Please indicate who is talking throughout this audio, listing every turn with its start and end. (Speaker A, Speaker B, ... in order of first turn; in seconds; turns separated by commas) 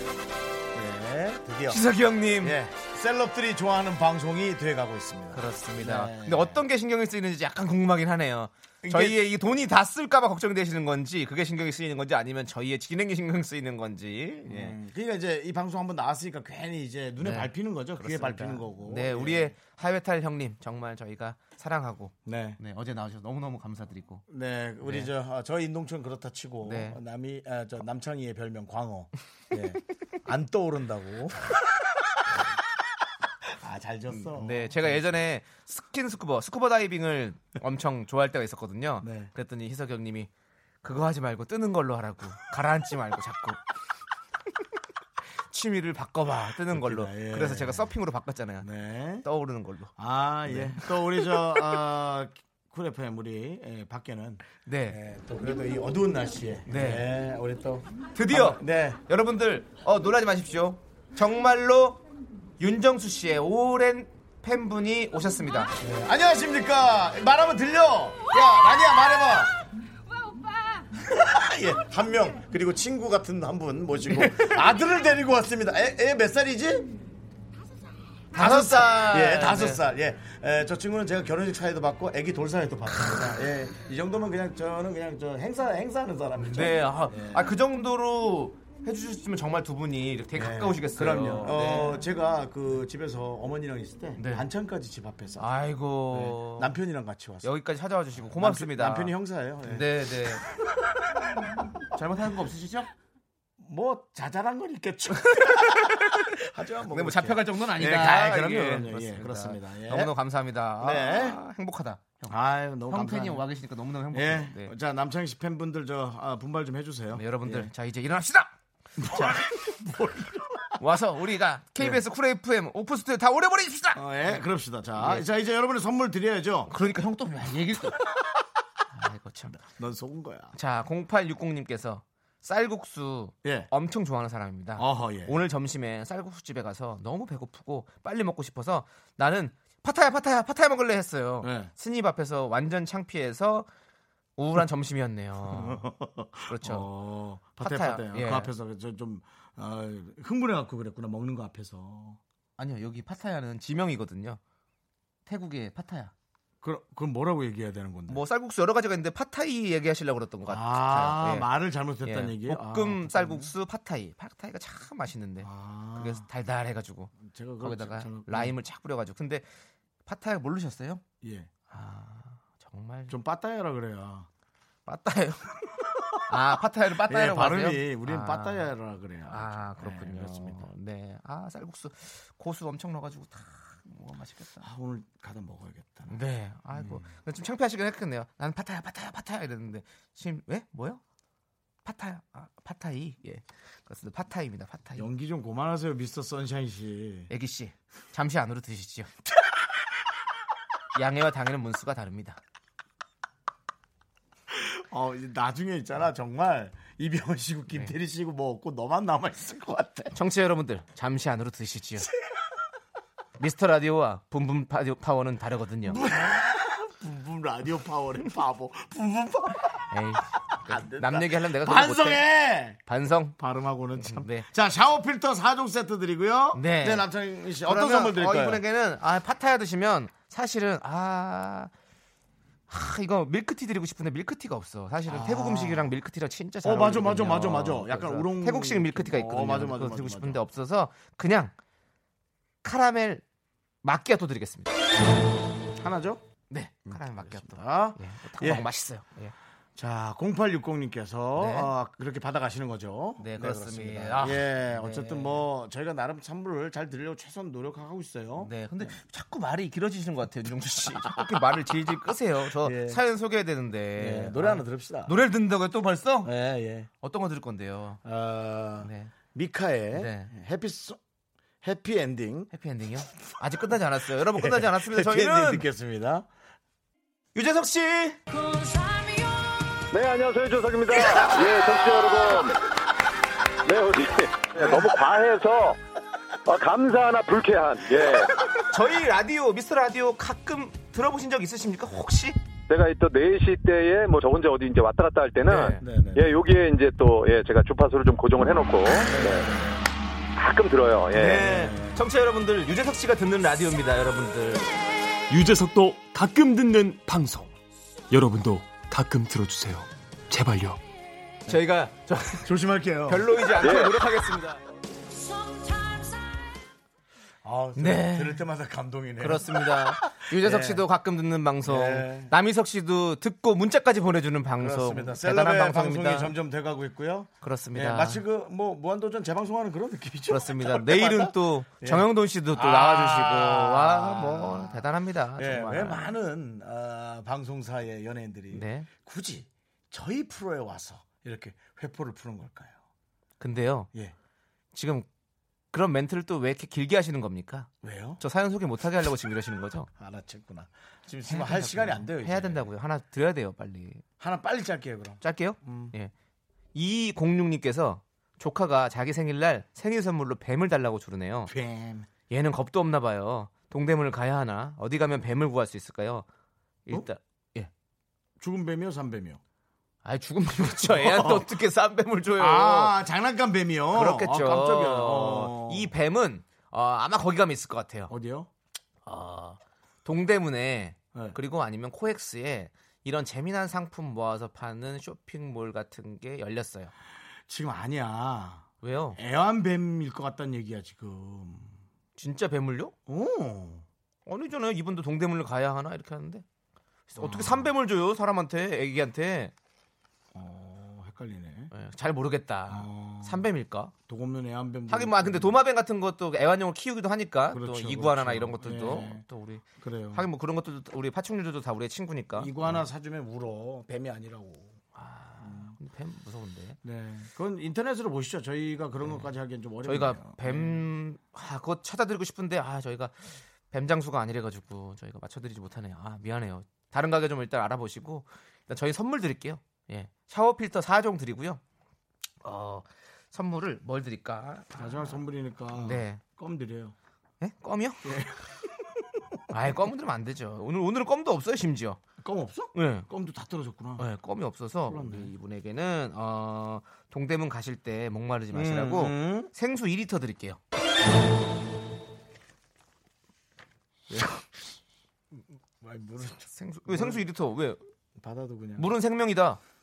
Speaker A: 0.7-1.8, Speaker B: 1.7-2.6, Speaker A: 2.4-6.6, Speaker B: 5.3-14.8, Speaker A: 8.8-9.2, Speaker A: 14.5-19.5, Speaker B: 17.2-24.2, Speaker A: 22.3-22.6, Speaker A: 24.3-31.4, Speaker B: 24.8-25.1, Speaker B: 26.6-27.0, Speaker A: 33.5-35.1, Speaker B: 34.3-40.3, Speaker A: 39.0-39.3, Speaker B: 40.8-43.6, Speaker B: 45.5-48.7, Speaker A: 46.7-47.9, Speaker A: 48.6-49.2, Speaker B: 49.2-49.9, Speaker A: 50.0-59.0, Speaker B: 50.5-51.6, Speaker B: 54.7-55.0, Speaker B: 56.7-57.1, Speaker B: 58.1-62.0, Speaker B: 62.6-65.7, Speaker A: 65.8-69.5, Speaker A: 71.0-76.9, Speaker B: 74.1-74.6, Speaker B: 78.3-79.8, Speaker A: 78.3-87.6, Speaker B: 86.5-92.0, Speaker A: 90.3-95.5, Speaker B: 94.2-94.5, Speaker B: 95.4-96.8, Speaker A: 96.1-97.5, Speaker B: 97.4-100.4, Speaker A: 98.3-99.9, Speaker B: 101.9-102.9, Speaker A: 103.6-110.1, Speaker B: 105.3-106.3, Speaker B: 106.9-112.2, Speaker A: 110.8-111.4, Speaker A: 112.3-113.5, Speaker B: 112.9-114.7, Speaker A: 114.1-117.7, Speaker B: 117.1-119.4, Speaker A: 119.0-120.8, Speaker B: 120.8-124.4, Speaker A: 124.0-126.7, Speaker B: 125.0-125.2, Speaker B: 126.7-128.1, Speaker B: 128.9-129.6, Speaker A: 129.6-130.6, Speaker B: 130.6-143.7, Speaker A: 134.8-135.4, Speaker A: 141.4-141.7, Speaker B: 144.4-145.8, Speaker A: 145.5-152.2, Speaker B: 146.5-146.9, Speaker B: 147.6-148.5, Speaker B: 152.6-154.4, Speaker B: 155.3-156.1, Speaker A: 156.6-158.2, Speaker B: 158.1-161.5, Speaker A: 160.4-163.5, Speaker B: 162.0-169.5, Speaker A: 165.4-166.3, Speaker A: 167.2-168.6, Speaker B: 170.1-171.0, Speaker A: 171.2-171.5, Speaker B: 171.7-173.1, Speaker A: 173.1-174.3, Speaker B: 174.9-178.7, Speaker A: 177.1-180.7, Speaker B: 179.3-184.7, Speaker A: 184.6-186.2, Speaker B: 186.1-191.0, Speaker A: 186.7-187.1, Speaker B: 191.8-195.1, Speaker A: 195.0-197.3, Speaker B: 197.3-199.1, Speaker B: 200.9-202.4, Speaker A: 204.5-210.2, Speaker B: 210.1-212.1, Speaker B: 213.4-216.1, Speaker A: 215.9-219.9, Speaker B: 219.9-222.2, Speaker A: 220.6-222.8, Speaker B: 222.9-223.4, Speaker A: 223.4-228.6, Speaker B: 224.0-224.5, Speaker B: 226.5-227.1, Speaker B: 227.6-231.7, Speaker B: 232.7-241.6, Speaker A: 235.1-235.9, Speaker A: 236.6-240.4, Speaker B: 242.6-243.2, Speaker B: 243.8-244.7, Speaker A: 245.8-246.2, Speaker B: 246.5-249.3, Speaker A: 246.9-248.7, Speaker A: 249.8-258.9, Speaker B: 251.4-251.7, Speaker B: 253.2-255.5, Speaker B: 258.4-266.3, Speaker A: 260.9-261.3, Speaker A: 262.6-263.0, Speaker A: 264.0-265.2, Speaker A: 266.2-266.9, Speaker B: 267.0-268.0, Speaker A: 268.1-271.0, Speaker B: 268.8-269.1, Speaker B: 269.9-270.3, Speaker A: 271.6-272.5, Speaker B: 272.5-275.6, Speaker A: 274.4-276.3, Speaker B: 277.4-278.2, Speaker C: 279.9-282.6, Speaker C: 283.6-285.8, Speaker C: 286.5-288.3, Speaker B: 288.7-292.4, Speaker C: 292.7-299.5, Speaker B: 295.5-295.8, Speaker A: 295.8-296.3, Speaker A: 299.0-299.9, Speaker C: 300.4-301.4, Speaker A: 301.1-302.0, Speaker B: 301.1-304.7, Speaker D: 305.3-307.5, Speaker D: 308.1-310.8, Speaker B: 311.5-312.5, Speaker A: 312.4-313.8, Speaker B: 313.1-314.6, Speaker C: 313.6-313.9, Speaker A: 317.4-320.9, Speaker B: 317.8-318.4, Speaker B: 319.2-326.3, Speaker A: 321.6-322.3, Speaker A: 324.6-342.8, Speaker B: 327.4-328.2, Speaker B: 330.3-336.1, Speaker B: 338.5-338.9, Speaker B: 343.4-343.9, Speaker B: 344.7-345.1, Speaker B: 345.7-349.9, Speaker A: 347.8-348.2, Speaker A: 350.0-352.7, Speaker B: 351.3-354.0, Speaker A: 354.2-355.9, Speaker B: 355.2-356.1, Speaker B: 356.8-361.5, Speaker A: 361.5-362.1, Speaker B: 362.3-366.3, Speaker B: 366.9-367.7, Speaker A: 368.4-369.4, Speaker B: 370.0-372.9, Speaker A: 370.8-371.5, Speaker A: 372.4-375.9, Speaker B: 373.9-378.1, Speaker A: 378.1-378.5, Speaker B: 379.1-386.9, Speaker A: 387.5-391.8, Speaker B: 388.8-389.2, Speaker B: 392.2-392.9, Speaker A: 393.1-393.9, Speaker B: 394.3-396.4, Speaker B: 397.1-399.5, Speaker A: 397.2-397.7, Speaker A: 400.3-401.7, Speaker B: 401.7-403.9, Speaker A: 402.7-403.5, Speaker A: 404.1-405.6, Speaker B: 404.9-412.9, Speaker A: 407.5-409.2, Speaker A: 409.8-410.3, Speaker A: 412.4-414.8, Speaker B: 414.9-416.8, Speaker A: 415.4-415.7, Speaker A: 416.8-420.8, Speaker B: 419.0-419.3, Speaker B: 419.8-431.6, Speaker B: 432.4-435.2, Speaker A: 434.8-436.9, Speaker B: 435.7-436.2, Speaker B: 437.4-438.2, Speaker A: 438.0-439.4, Speaker B: 439.5-442.0, Speaker A: 442.2-444.1, Speaker B: 442.8-443.1, Speaker B: 444.0-450.6, Speaker A: 444.9-445.3, Speaker A: 448.5-449.5, Speaker A: 454.1-454.4, Speaker A: 455.8-457.2, Speaker B: 456.6-457.8, Speaker A: 458.2-458.9, Speaker B: 458.8-459.6